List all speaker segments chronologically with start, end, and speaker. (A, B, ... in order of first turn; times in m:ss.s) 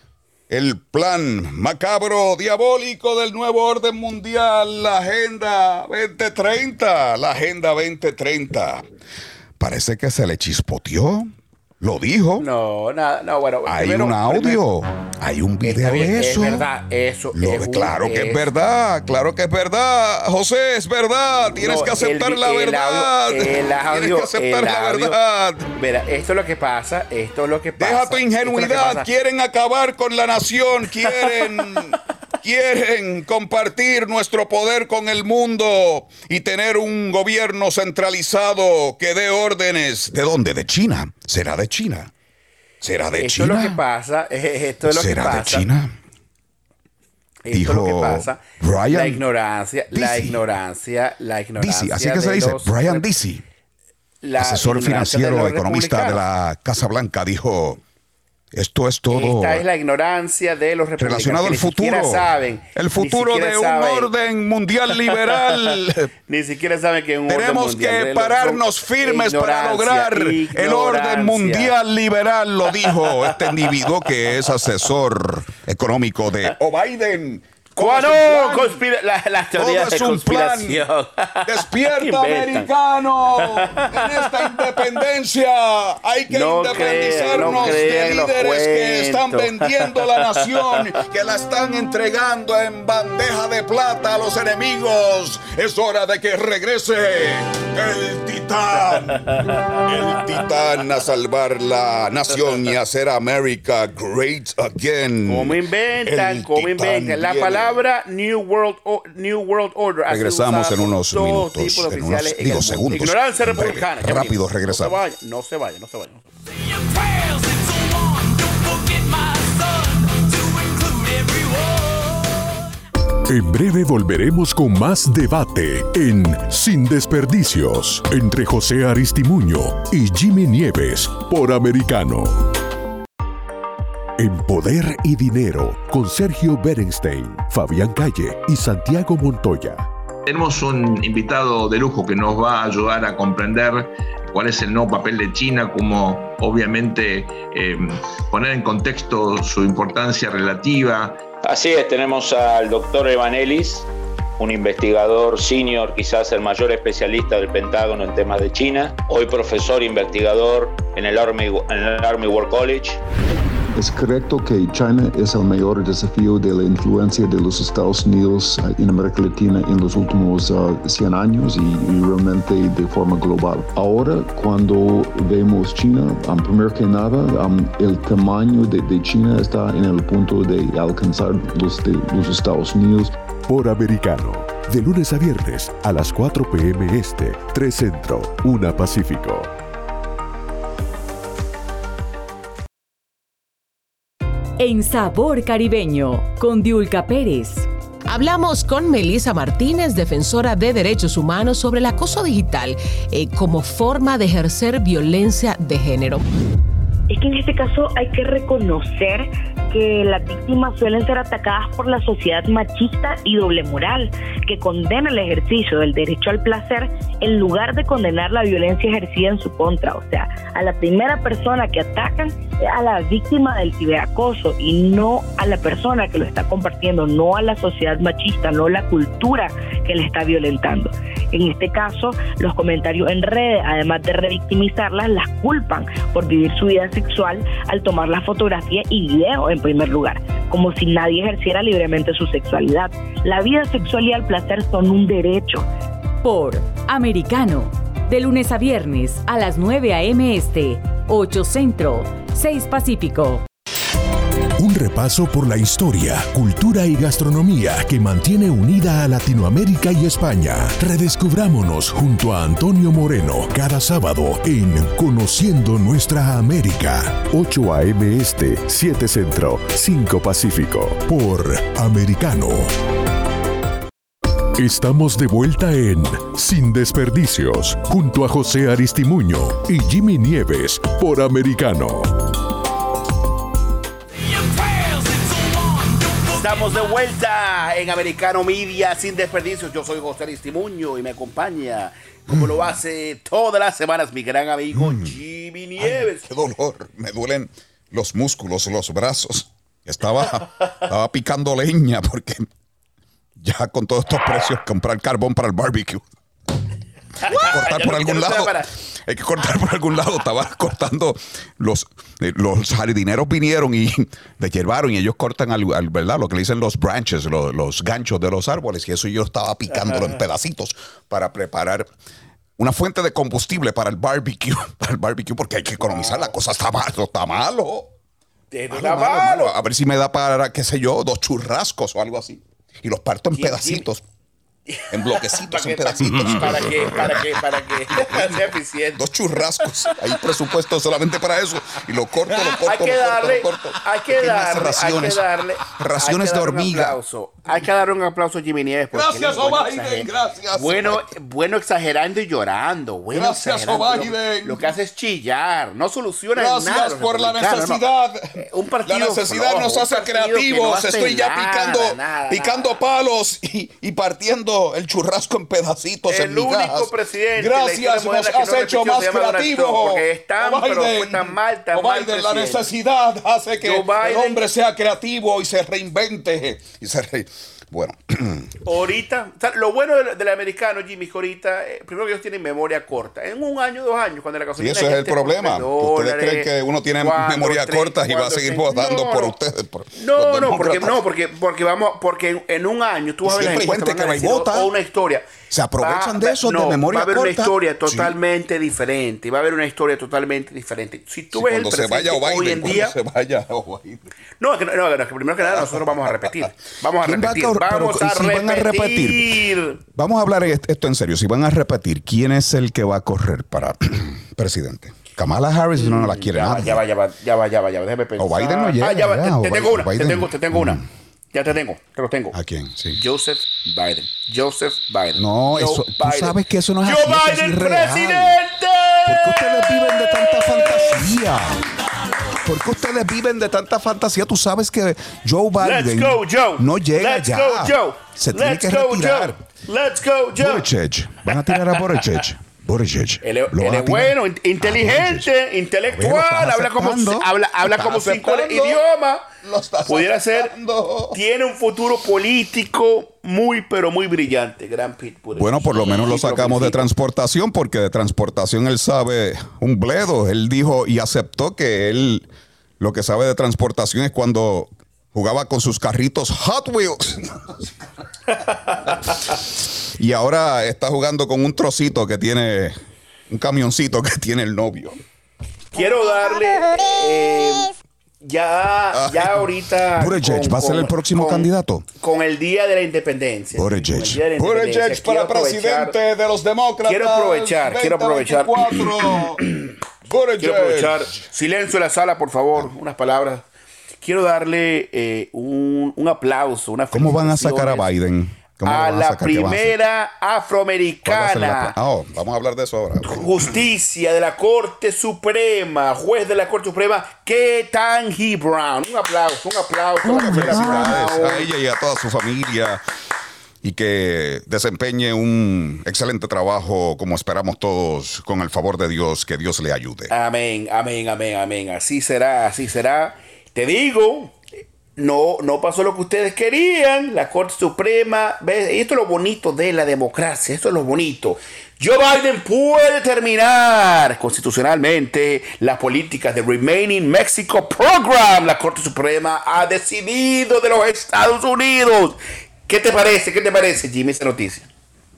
0:00.5-0:08.9 A
0:09.6-0:11.3 A
0:11.8-0:12.5 A
0:12.4-0:14.6 B
0:13.7-0:16.6 A
0:15.6-0:18.4 B
0:17.3-0:25.7 A
0:21.6-0:25.2 B
0:25.8-0:29.1 B
0:27.8-0:42.1 A
0:31.0-0:31.5 B
0:42.8-0:43.8 A
0:43.1-0:45.7 B
0:44.8-0:46.0 A
0:47.4-0:53.0 B
0:47.5-0:49.2 A
0:49.9-0:50.4 A
0:51.6-0:53.4 A
0:54.2-0:56.2 B
0:54.4-0:57.8 A
0:58.5-0:59.6 A
0:59.1-1:04.1 B
1:01.0-1:06.1 A
1:04.9-1:11.8 B
1:07.3-1:18.8 A
1:12.7-1:14.6 B
1:17.8-1:22.7 B
1:19.6-1:20.8 A
1:21.5-1:47.8 A
1:23.4-1:25.0 B
1:26.3-1:30.9 B
1:39.3-1:39.8 B
1:45.3-1:56.3 B
1:50.1-1:55.0 A
2:03.3-2:12.5 C
2:14.2-2:19.9 C
2:20.3-2:31.3 D
2:31.4-2:33.9 E
2:34.4-2:43.0 E
2:43.8-3:03.1 F
3:03.5-3:09.5 C
3:14.6-3:17.7 G
3:18.1-3:26.2 H
3:27.1-4:05.7 I
4:06.2-4:13.4 G
4:14.6-4:32.7 C
4:34.6-4:42.2 C
4:46.2-4:56.2 B
4:54.7-4:55.1 A
4:55.8-5:02.5 A
5:03.4-5:06.0 A
5:07.2-5:08.7 B
5:07.2-5:21.9 A
5:19.7-5:20.2 B
5:22.6-5:27.9 A
5:25.8-5:26.3 B
5:28.5-5:29.5 B
5:28.7-5:34.0 A
5:33.3-5:33.9 B
5:34.7-5:40.2 B
5:34.9-5:47.0 A
5:42.3-5:57.8 B
5:48.9-5:51.1 A
5:53.1-5:54.6 A
5:56.4-6:18.6 A
5:58.4-6:02.7 B
6:06.1-6:12.7 B
6:13.6-6:14.4 B
6:18.6-6:29.4 B
6:24.6-6:31.0 A
6:30.0-6:35.3 B
6:33.2-6:34.7 A
6:35.5-6:38.2 A
6:35.8-6:43.0 B
6:41.3-6:44.1 A
6:44.4-6:49.8 B
6:45.4-6:46.3 A
6:47.0-6:49.3 A
6:49.9-6:56.8 A
6:55.8-7:00.8 B
6:58.2-7:00.8 A
7:01.3-7:02.4 B
7:02.3-7:03.0 A
7:03.0-7:11.3 B
7:05.2-7:08.4 A
7:09.1-7:11.6 A
7:12.4-7:19.4 A
7:15.6-7:20.7 B
7:20.4-7:25.3 A
7:21.3-7:22.0 B
7:23.2-7:29.3 B
7:25.9-7:28.8 A
7:29.4-7:31.2 A
7:29.9-7:30.5 B
7:31.1-7:36.8 B
7:35.4-7:42.3 A
7:42.8-7:47.7 A
7:48.4-7:48.9 B
7:48.9-7:49.3 A
7:50.0-7:52.8 A
7:53.3-7:55.0 A
7:55.7-8:01.5 B
7:56.6-7:56.9 A
7:58.9-8:01.9 A
8:02.0-8:06.0 B
8:03.5-8:09.4 A
8:06.8-8:09.7 B
8:10.1-8:11.1 A
8:10.4-8:13.4 B
8:14.0-8:17.9 B
8:16.9-8:19.7 A
8:18.6-8:21.8 B
8:21.1-8:23.5 A
8:23.0-8:31.5 B
8:30.0-8:32.8 A
8:33.6-8:40.1 A
8:40.1-8:44.4 B
8:45.0-9:04.7 B